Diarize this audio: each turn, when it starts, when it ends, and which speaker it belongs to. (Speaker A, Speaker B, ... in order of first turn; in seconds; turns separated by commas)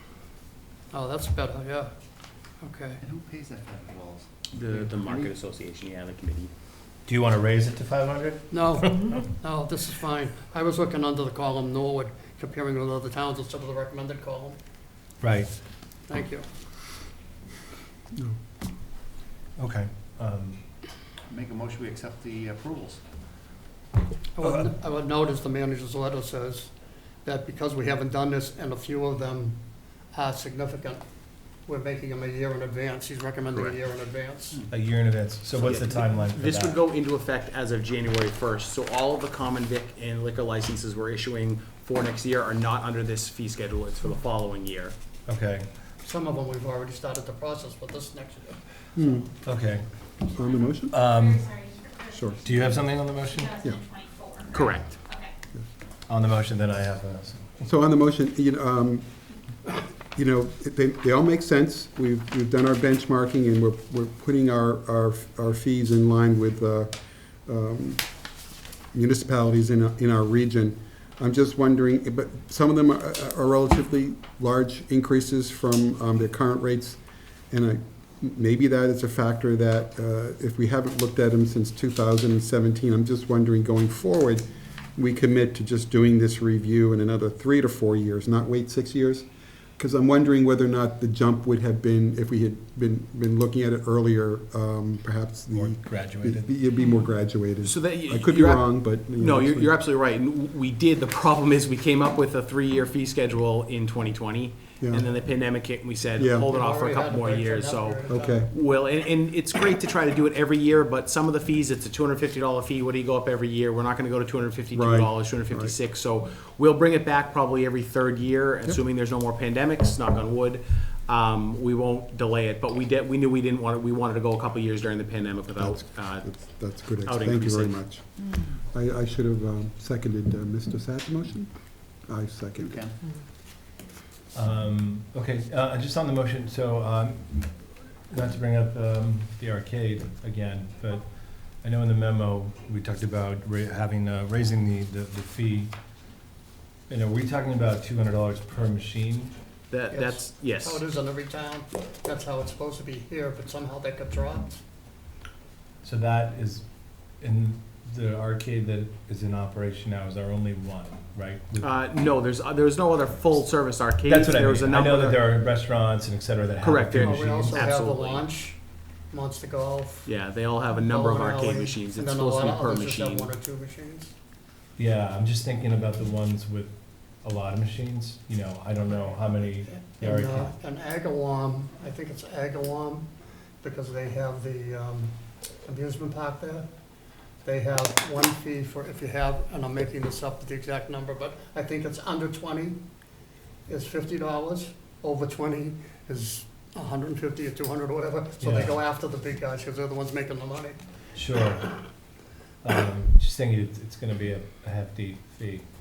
Speaker A: 0.9-1.9, Speaker A: 2.6-3.0, Speaker B: 3.0-5.3, Speaker C: 4.5-6.5, Speaker D: 7.1-9.2, Speaker A: 8.5-14.6, Speaker D: 15.2-15.5, Speaker A: 16.1-16.5, Speaker D: 19.6-20.6, Speaker B: 21.3-23.0, Speaker A: 24.3-26.7, Speaker A: 27.2-29.6, Speaker A: 30.1-31.0, Speaker A: 31.6-34.6, Speaker D: 34.7-36.8, Speaker C: 35.6-44.9, Speaker D: 45.3-45.7, Speaker A: 46.0-48.6, Speaker E: 49.0-49.3, Speaker D: 49.4-49.9, Speaker E: 50.3-50.9, Speaker F: 50.7-55.3, Speaker D: 50.9-51.5, Speaker E: 52.1-52.4, Speaker D: 52.4-53.5, Speaker C: 54.5-55.0, Speaker D: 56.1-57.6, Speaker E: 57.6-59.1, Speaker E: 59.6-68.0, Speaker E: 68.9-89.3, Speaker E: 89.8-99.8, Speaker D: 95.5-96.5, Speaker C: 97.6-127.8, Speaker E: 104.8-105.0, Speaker E: 106.2-106.5, Speaker A: 106.5-108.5, Speaker E: 108.1-108.5, Speaker E: 114.7-115.7, Speaker E: 125.5-132.8, Speaker B: 132.6-132.9, Speaker D: 134.3-141.1, Speaker D: 141.6-145.7, Speaker D: 146.9-149.3, Speaker C: 149.7-150.8, Speaker A: 149.9-154.6, Speaker D: 155.8-156.6, Speaker D: 157.2-161.7, Speaker C: 161.6-165.2, Speaker D: 164.0-167.6, Speaker C: 166.6-168.2, Speaker A: 167.0-168.6, Speaker A: 169.1-170.1, Speaker C: 170.1-173.3, Speaker A: 170.8-174.1, Speaker D: 174.8-180.5, Speaker A: 179.8-183.1, Speaker A: 183.6-185.1, Speaker A: 185.7-186.7, Speaker A: 187.4-192.8, Speaker A: 193.7-200.8, Speaker D: 198.4-198.8, Speaker D: 201.1-201.8, Speaker D: 202.6-205.6